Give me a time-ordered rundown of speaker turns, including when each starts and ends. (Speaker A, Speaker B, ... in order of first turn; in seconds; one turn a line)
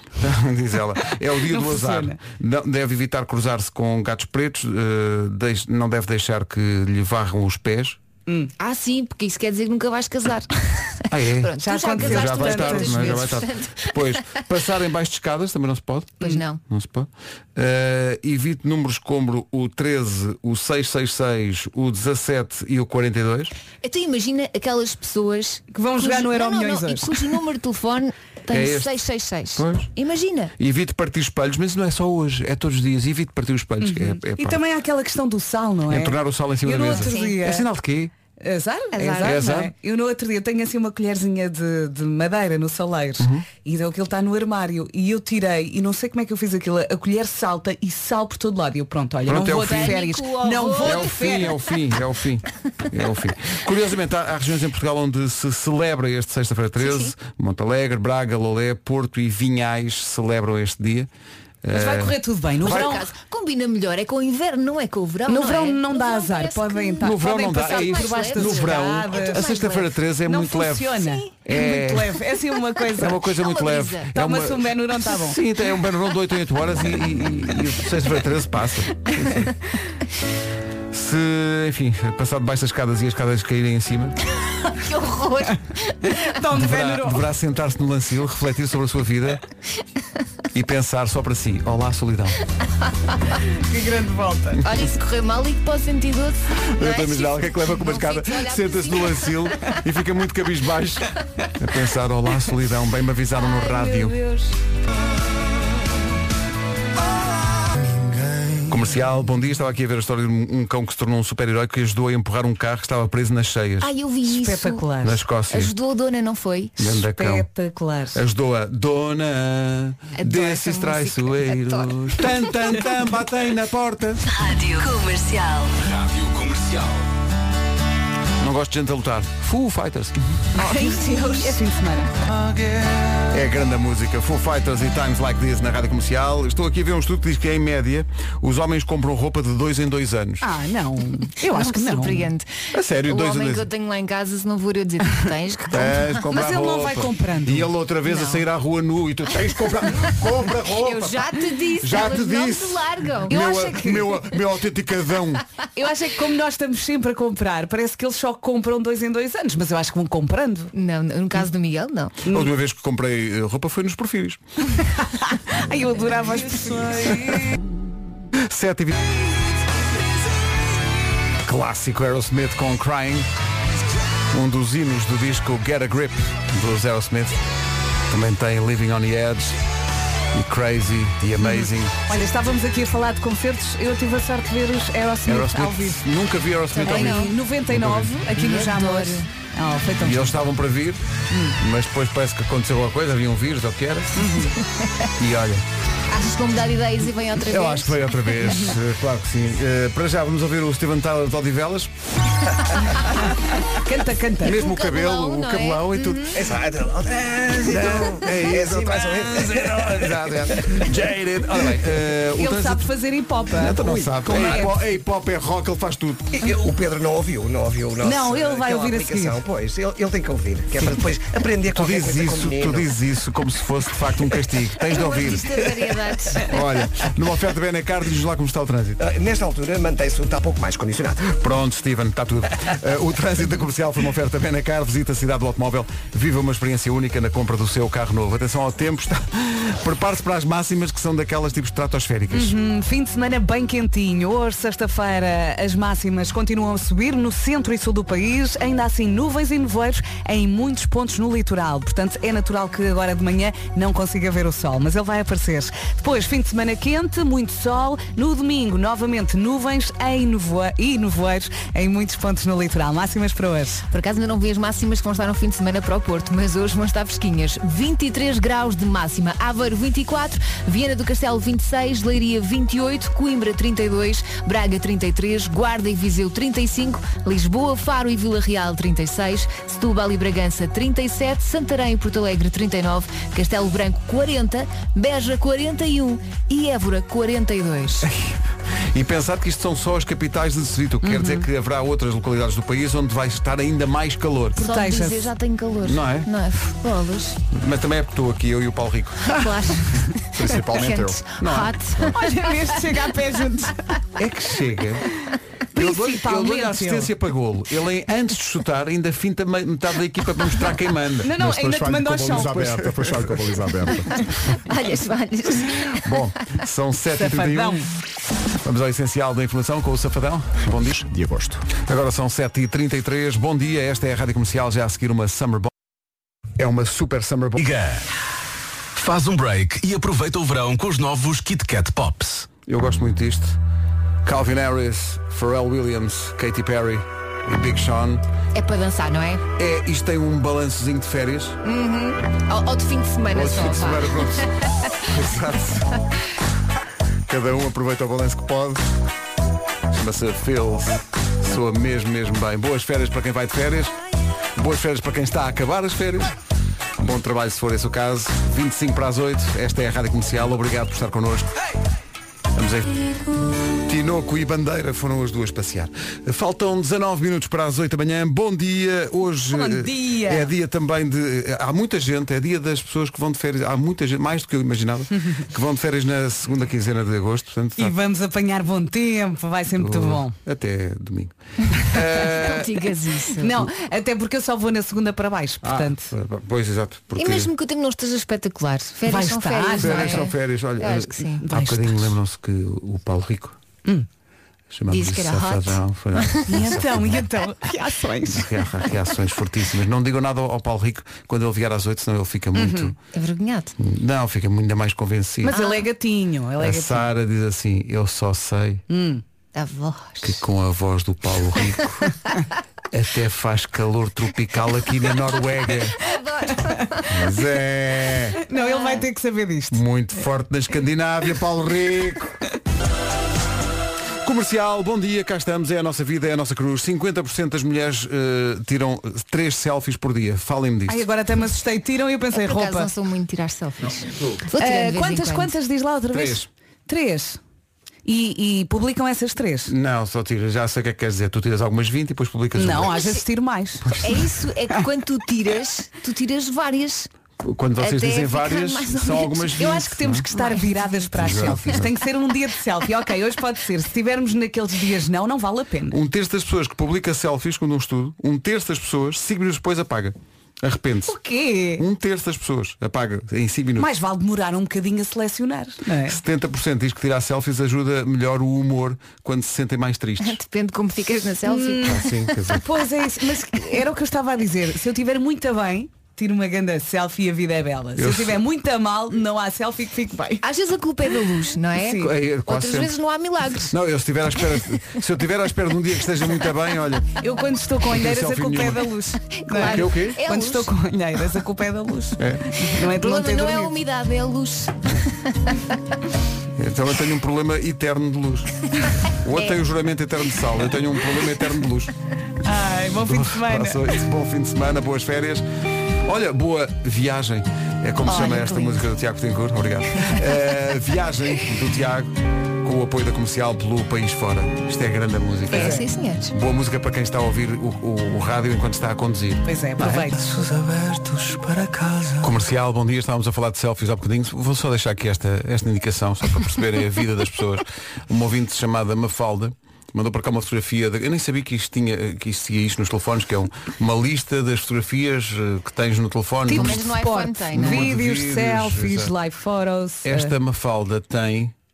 Speaker A: 0.2-8.0
Speaker B: 1.0-2.2
Speaker C: 8.6-13.9
Speaker A: 11.1-23.5
Speaker B: 11.6-13.2
Speaker C: 16.2-16.6
Speaker C: 23.8-30.5
Speaker B: 25.7-27.1
Speaker A: 28.5-29.0
Speaker A: 29.5-29.9
Speaker A: 30.6-34.6
Speaker B: 33.8-37.6
Speaker A: 35.9-38.1
Speaker C: 36.9-37.4
Speaker B: 38.4-51.5
Speaker C: 39.0-39.4
Speaker A: 39.2-39.7
Speaker A: 43.2-43.5
Speaker A: 49.2-50.0
Speaker C: 49.5-51.5
Speaker A: 50.8-61.1
Speaker C: 56.8-57.1
Speaker A: 61.6-62.9
Speaker B: 61.7-63.1
Speaker C: 62.6-70.0
Speaker B: 65.3-69.5
Speaker A: 67.0-72.3
Speaker B: 70.2-73.2
Speaker A: 72.9-79.5
Speaker C: 73.3-74.1
Speaker B: 74.1-75.4
Speaker A: 80.9-84.2
Speaker C: 84.6-86.1
Speaker B: 86.0-87.3
Speaker A: 86.5-89.4
Speaker A: 90.5-92.4
Speaker B: 93.6-94.7
Speaker C: 94.6-99.7
Speaker A: 96.7-104.2
Speaker C: 103.3-104.5
Speaker A: 108.6-113.9
Speaker C: 113.8-114.9
Speaker B: 114.3-115.2
Speaker A: 115.0-115.7
Speaker C: 115.5-116.9
Speaker A: 116.8-117.5
Speaker B: 117.1-118.2
Speaker A: 118.1-124.3
Speaker C: 120.2-122.6
Speaker C: 124.4-125.7
Speaker D: 125.8-127.0
Speaker A: 128.4-130.4
Speaker B: 130.6-132.1
Speaker C: 130.6-131.6
Speaker A: 132.3-140.5
Speaker B: 140.4-142.3
Speaker C: 141.4-146.2
Speaker A: 142.7-143.7
Speaker A: 145.7-155.4
Speaker B: 146.3-148.2
Speaker C: 150.7-153.4
Speaker B: 153.3-154.2
Speaker B: 155.7-160.7
Speaker C: 160.7-162.2
Speaker B: 162.2-162.5
Speaker A: 162.3-164.4
Speaker B: 164.8-167.5
Speaker A: 166.8-167.8
Speaker A: 168.3-169.0
Speaker A: 171.4-173.3
Speaker A: 174.3-177.4
Speaker A: 178.1-179.6
Speaker A: 180.3-182.0
Speaker B: 181.4-186.0
Speaker A: 185.2-188.6
Speaker C: 186.7-187.3
Speaker B: 186.8-190.4
Speaker C: 188.4-189.3
Speaker A: 190.0-191.0
Speaker B: 191.3-191.6
Speaker A: 191.6-194.2
Speaker B: 194.2-194.6
Speaker A: 195.2-195.6
Speaker C: 196.1-198.0
Speaker A: 197.4-201.9
Speaker B: 198.4-198.8
Speaker B: 203.7-204.6
Speaker A: 204.4-206.5
Speaker C: 204.5-206.4
Speaker E: 206.3-210.3
Speaker A: 207.5-212.9
Speaker B: 212.3-214.8
Speaker A: 213.5-216.4
Speaker E: 216.4-222.9
Speaker B: 218.0-219.4
Speaker A: 221.6-225.6
Speaker C: 224.8-226.5
Speaker A: 226.4-229.0
Speaker E: 229.0-231.4
Speaker A: 231.2-242.6
Speaker B: 242.3-263.8
Speaker C: 263.9-288.1
Speaker A: 288.0-288.4
Speaker A: 288.9-294.7
Speaker B: 291.0-291.5
Speaker B: 294.6-295.3
Speaker C: 294.6-297.4
Speaker A: 295.8-296.3
Speaker A: 297.5-299.8
Speaker C: 299.3-302.9
Speaker F: 300.4-301.2
Speaker A: 301.4-302.0
Speaker B: 302.1-303.8
Speaker A: 304.1-305.0
Speaker B: 305.7-307.1
Speaker A: 305.7-313.4
Speaker B: 311.2-312.8
Speaker F: 311.4-314.1
Speaker C: 314.5-316.0
Speaker A: 315.8-317.9
Speaker B: 317.1-317.9
Speaker A: 318.6-321.1
Speaker F: 321.1-321.6
Speaker A: 321.7-325.7
Speaker A: 326.6-327.6
Speaker D: 327.6-328.1
Speaker D: 328.9-332.5
Speaker A: 332.6-333.6
Speaker A: 334.2-338.2
Speaker C: 338.5-339.4
Speaker A: 339.6-341.6
Speaker C: 341.6-345.0
Speaker A: 343.3-344.5
Speaker A: 345.0-345.9
Speaker A: 347.3-348.9
Speaker A: 349.9-353.9
Speaker A: 354.6-356.3
Speaker A: 357.0-361.5
Speaker A: 362.5-363.1
Speaker A: 363.8-377.9
Speaker B: 369.5-370.5
Speaker B: 377.8-380.4
Speaker A: 379.7-382.9
Speaker C: 382.3-383.6
Speaker B: 383.4-386.1
Speaker A: 385.6-387.5
Speaker C: 387.2-391.4
Speaker B: 389.1-390.3
Speaker A: 389.8-393.6
Speaker B: 391.4-392.1
Speaker A: 394.7-397.2
Speaker C: 394.9-396.7
Speaker B: 396.5-398.5
Speaker A: 398.3-403.0
Speaker B: 402.5-402.9
Speaker C: 403.1-403.7
Speaker A: 403.8-405.6
Speaker B: 405.4-407.1
Speaker C: 405.5-405.8
Speaker A: 406.6-408.8
Speaker B: 408.9-409.2
Speaker C: 409.5-410.4
Speaker A: 410.2-412.2
Speaker A: 412.9-416.0
Speaker C: 416.0-417.3
Speaker A: 417.1-418.4
Speaker B: 418.4-419.8
Speaker C: 418.5-419.0
Speaker A: 419.7-422.4
Speaker A: 424.2-431.1
Speaker B: 430.9-432.9
Speaker C: 432.3-435.5
Speaker B: 434.6-437.4
Speaker A: 436.1-436.5
Speaker B: 438.0-439.7
Speaker A: 439.7-443.0
Speaker B: 442.5-443.9
Speaker A: 443.8-444.2
Speaker C: 443.9-447.1
Speaker A: 447.4-450.2
Speaker C: 447.8-449.6
Speaker B: 449.6-455.9
Speaker C: 450.3-451.8
Speaker A: 451.1-451.9
Speaker A: 455.9-461.2
Speaker B: 461.1-461.8
Speaker A: 461.8-463.9
Speaker B: 463.8-466.2
Speaker A: 466.0-470.4
Speaker C: 470.2-472.5
Speaker B: 471.4-480.4
Speaker A: 471.8-472.6
Speaker A: 477.9-478.4
Speaker C: 480.4-483.7
Speaker B: 481.8-482.1
Speaker A: 481.9-482.9
Speaker A: 483.6-487.1
Speaker B: 487.2-493.8
Speaker A: 487.9-489.0
Speaker C: 489.4-490.7
Speaker A: 489.6-490.2
Speaker A: 492.2-492.5
Speaker C: 492.8-495.6
Speaker A: 496.6-501.9
Speaker B: 502.4-503.9
Speaker A: 503.0-505.4
Speaker A: 506.0-521.2
Speaker C: 508.0-508.9
Speaker C: 515.5-516.4
Speaker B: 515.5-515.8
Speaker B: 519.4-520.5
Speaker B: 521.3-522.2
Speaker A: 522.2-536.9
Speaker B: 536.5-540.3
Speaker C: 536.5-537.9
Speaker A: 537.5-539.1
Speaker A: 540.0-541.5